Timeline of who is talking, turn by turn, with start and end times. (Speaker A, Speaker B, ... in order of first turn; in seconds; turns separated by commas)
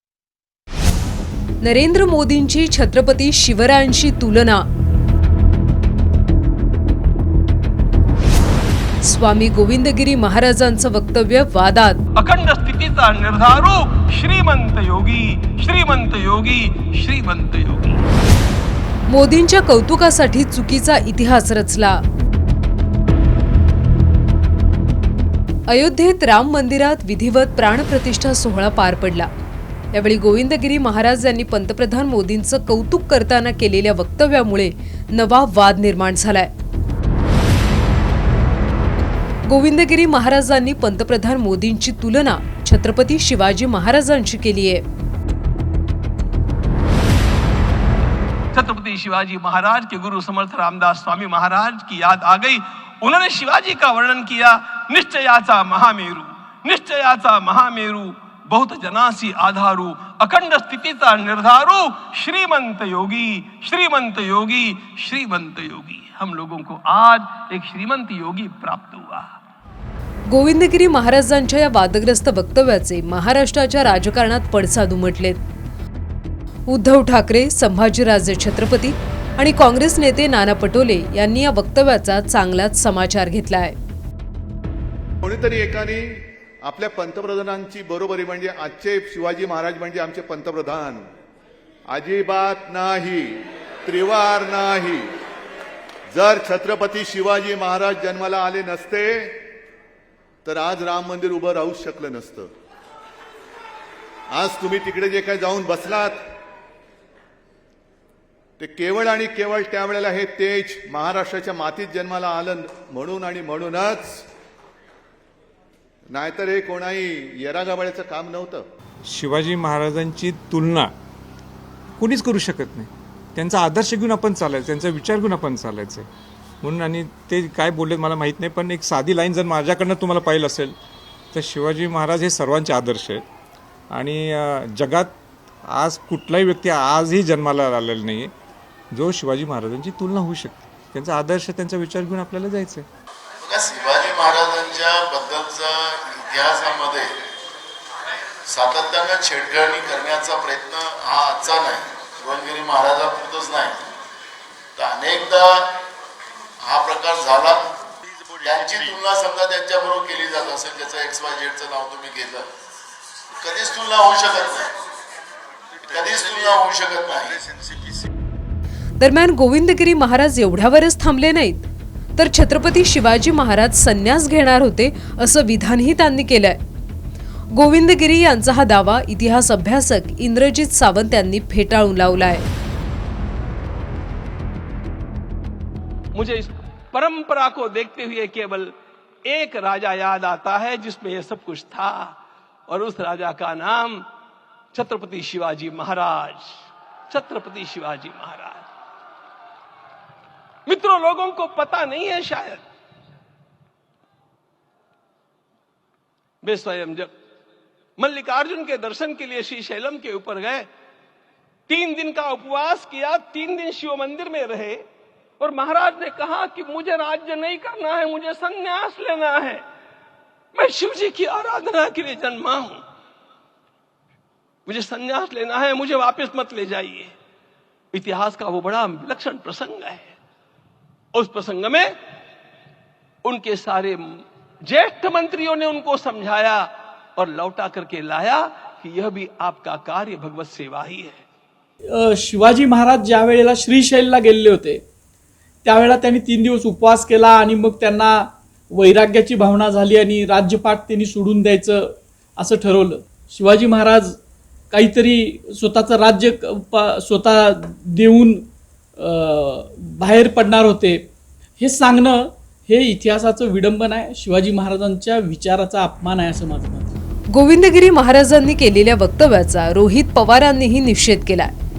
Speaker A: 1.6-4.6, Speaker A: 9.0-12.0, Speaker B: 12.2-18.1, Speaker A: 19.1-22.0, Speaker A: 25.7-29.3, Speaker A: 29.9-36.5, Speaker A: 39.5-44.8, Speaker B: 48.5-69.3, Speaker A: 70.3-75.4, Speaker A: 76.7-83.8, Speaker C: 85.2-91.1, Speaker C: 91.9-95.1, Speaker C: 96.1-99.5, Speaker C: 100.4-102.5, Speaker C: 104.3-106.2, Speaker C: 108.6-114.2, Speaker C: 116.1-118.7, Speaker D: 119.0-120.9, Speaker D: 122.0-126.1, Speaker D: 126.6-130.7, Speaker D: 131.3-133.2, Speaker D: 133.9-135.2, Speaker D: 135.7-138.3, Speaker D: 138.9-142.8, Speaker E: 143.4-147.2, Speaker E: 148.4-153.9, Speaker E: 154.8-155.8, Speaker E: 156.6-157.7, Speaker E: 158.4-162.5, Speaker E: 163.4-164.7, Speaker E: 165.9-167.4, Speaker A: 169.0-176.6, Speaker A: 177.5-182.4, Speaker B: 186.1-194.1, Speaker B: 194.7-198.7, Speaker B: 200.7-202.6, Speaker B: 206.4-207.1, Speaker B: 208.0-210.7, Speaker B: 211.7-214.8, Speaker B: 215.4-219.6, Speaker B: 220.5-222.8, Speaker B: 224.7-227.1, Speaker B: 227.9-230.1, Speaker B: 231.1-231.9, Speaker B: 233.2-241.2, Speaker F: 241.9-244.8, Speaker F: 245.6-254.2, Speaker F: 254.7-266.9, Speaker A: 267.3-271.5